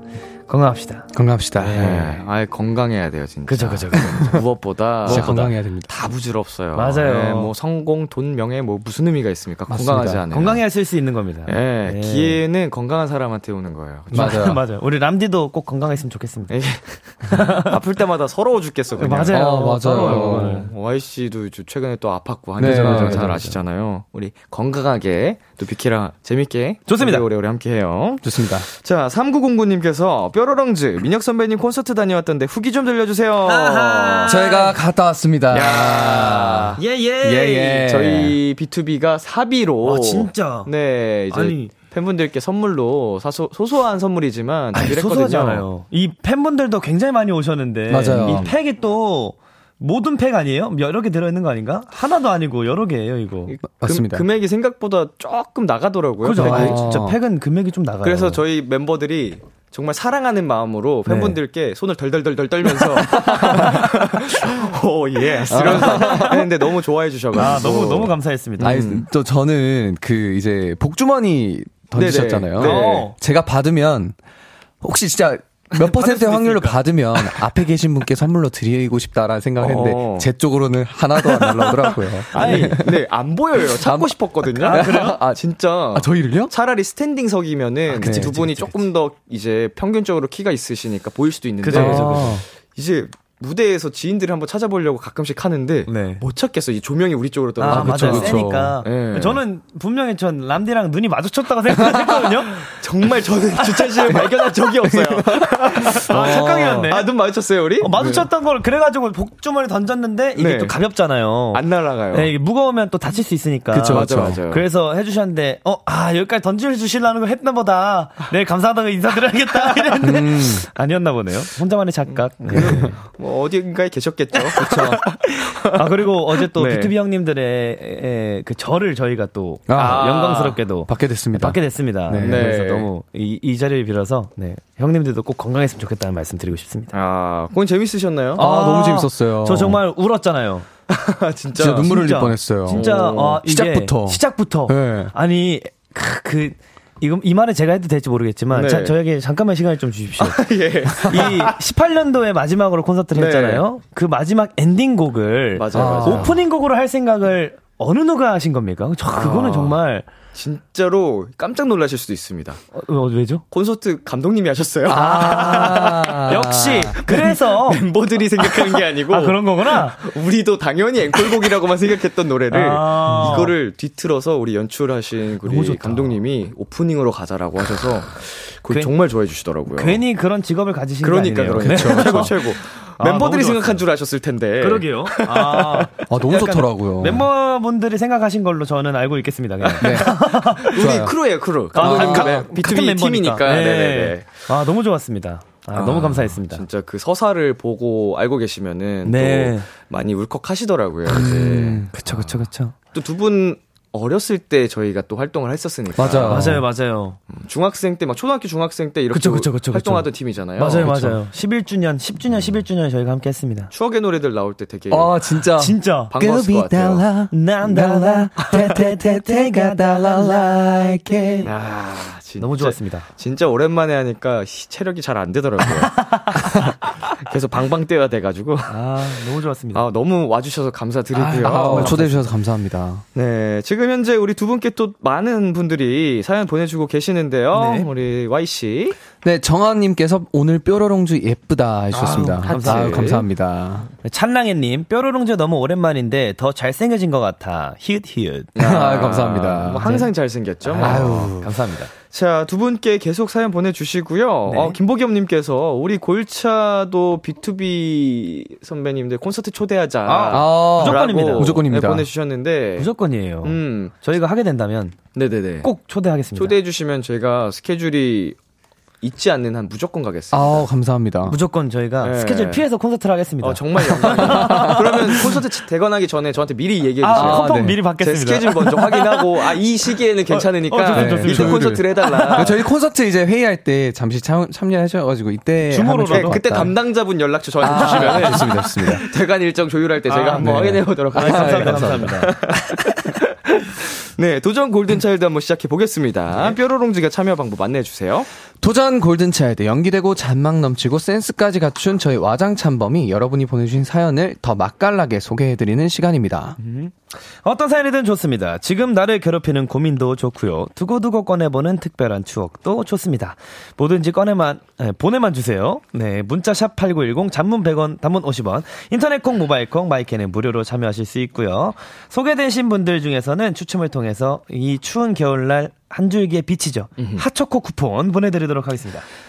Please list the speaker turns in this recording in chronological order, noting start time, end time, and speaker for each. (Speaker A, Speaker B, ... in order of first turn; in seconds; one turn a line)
Speaker A: 0.5-2.2
Speaker B: 1.1-1.9
Speaker C: 1.7-10.6
Speaker A: 3.5-4.4
Speaker B: 5.0-5.9
Speaker A: 5.1-5.4
Speaker A: 6.7-7.5
Speaker B: 9.7-10.2
Speaker A: 10.3-12.4
Speaker C: 11.4-14.4
Speaker B: 14.1-14.6
Speaker A: 14.1-16.5
Speaker C: 16.5-34.5
Speaker A: 17.3-17.7
Speaker A: 19.0-20.7
Speaker B: 19.3-20.6
Speaker B: 22.6-23.4
Speaker A: 22.6-23.6
Speaker A: 26.9-27.2
Speaker B: 28.2-28.7
Speaker A: 33.4-34.7
Speaker B: 34.2-38.4
Speaker C: 35.5-36.8
Speaker A: 36.8-37.9
Speaker C: 37.7-45.6
Speaker A: 39.8-40.7
Speaker A: 41.3-41.7
Speaker A: 44.7-53.5
Speaker B: 47.9-48.5
Speaker C: 48.2-48.5
Speaker C: 53.5-56.8
Speaker B: 53.8-54.2
Speaker A: 56.2-58.4
Speaker B: 56.3-57.2
Speaker C: 58.0-69.0
Speaker A: 61.1-61.4
Speaker B: 63.1-63.9
Speaker B: 65.5-66.4
Speaker A: 65.6-66.4
Speaker A: 67.3-68.8
Speaker B: 68.6-74.2
Speaker C: 71.9-73.1
Speaker A: 72.6-73.1
Speaker B: 74.8-83.0
Speaker A: 75.7-77.3
Speaker C: 79.6-80.3
Speaker A: 81.2-82.8
Speaker C: 82.3-99.4
Speaker B: 83.6-85.4
Speaker A: 84.6-85.2
Speaker B: 85.9-86.5
Speaker A: 87.9-88.7
Speaker B: 88.0-88.6
Speaker A: 91.6-92.4
Speaker B: 91.7-92.4
Speaker A: 95.9-96.2
Speaker A: 97.6-102.7
Speaker B: 97.7-98.8
Speaker B: 101.8-102.1
Speaker C: 102.6-108.0
Speaker B: 104.8-106.9
Speaker A: 105.9-107.1
Speaker A: 107.8-123.0
Speaker B: 107.9-108.3
Speaker C: 110.3-110.8
Speaker C: 111.5-112.3
Speaker B: 113.7-114.4
Speaker C: 113.8-114.7
Speaker B: 120.0-120.7
Speaker C: 122.4-125.9
Speaker B: 122.5-122.9
Speaker A: 124.3-136.9
Speaker C: 126.4-126.9
Speaker B: 129.7-130.1
Speaker C: 129.7-130.6
Speaker B: 130.8-132.5
Speaker C: 132.2-132.9
Speaker C: 136.9-138.4
Speaker B: 138.3-139.8
Speaker A: 138.4-140.7
Speaker C: 140.9-142.0
Speaker B: 141.6-142.9
Speaker A: 141.8-160.1
Speaker C: 142.7-143.4
Speaker B: 143.4-145.1
Speaker C: 148.5-148.9
Speaker C: 150.2-151.5
Speaker C: 153.1-153.6
Speaker C: 155.5-156.4
Speaker B: 155.7-156.4
Speaker C: 159.1-159.8
Speaker C: 160.3-162.6
Speaker A: 162.7-163.4
Speaker C: 163.5-180.0
Speaker B: 164.9-167.0
Speaker A: 164.9-167.8
Speaker A: 168.4-170.1
Speaker A: 172.5-173.5
Speaker A: 175.4-176.2
Speaker A: 179.7-183.8
Speaker C: 181.0-185.9
Speaker B: 181.5-182.3
Speaker A: 184.6-190.8
Speaker B: 186.1-187.3
Speaker C: 189.6-194.4
Speaker B: 189.8-191.1
Speaker B: 191.7-192.4
Speaker A: 191.7-196.6
Speaker C: 195.8-206.6
Speaker B: 195.8-196.2
Speaker A: 199.0-199.7
Speaker B: 201.1-201.9
Speaker A: 201.9-202.7
Speaker B: 205.9-206.6
Speaker A: 206.3-207.2
Speaker C: 207.3-210.9
Speaker A: 209.1-213.7
Speaker B: 210.7-211.2
Speaker C: 213.7-215.3
Speaker B: 214.9-221.5
Speaker A: 215.6-216.1
Speaker C: 216.1-217.1
Speaker A: 217.3-220.6
Speaker C: 221.4-229.2
Speaker A: 222.4-223.1
Speaker A: 225.8-226.4
Speaker A: 228.7-229.8
Speaker C: 229.7-232.2
Speaker A: 231.2-232.2
Speaker B: 231.2-233.0
Speaker C: 233.1-239.0
Speaker A: 237.5-237.9
Speaker B: 239.2-243.9
Speaker A: 241.9-243.2
Speaker C: 242.0-243.2
Speaker A: 244.0-248.5
Speaker B: 248.6-249.9
Speaker C: 248.6-251.3
Speaker A: 249.8-250.1
Speaker A: 250.7-251.9
Speaker B: 250.8-251.5
Speaker C: 252.0-262.9
Speaker A: 254.5-254.8
Speaker A: 260.1-261.6
Speaker B: 260.3-262.1
Speaker A: 262.8-265.0
Speaker C: 263.4-263.9
Speaker C: 265.1-265.7
Speaker A: 265.6-266.6
Speaker C: 266.3-268.4
Speaker C: 269.0-270.6
Speaker B: 270.3-271.4
Speaker A: 271.2-275.3
Speaker C: 272.0-272.6
Speaker C: 273.4-282.6
Speaker B: 274.1-275.0
Speaker A: 277.0-279.6
Speaker B: 277.1-277.8
Speaker A: 280.3-282.5
Speaker B: 280.9-286.7
Speaker A: 285.7-286.4
Speaker C: 286.1-298.3
Speaker B: 287.6-289.0
Speaker A: 287.7-288.5
Speaker A: 290.1-292.9
Speaker B: 290.4-292.2
Speaker B: 298.6-306.6
Speaker A: 306.6-329.0
Speaker C: 327.0-327.2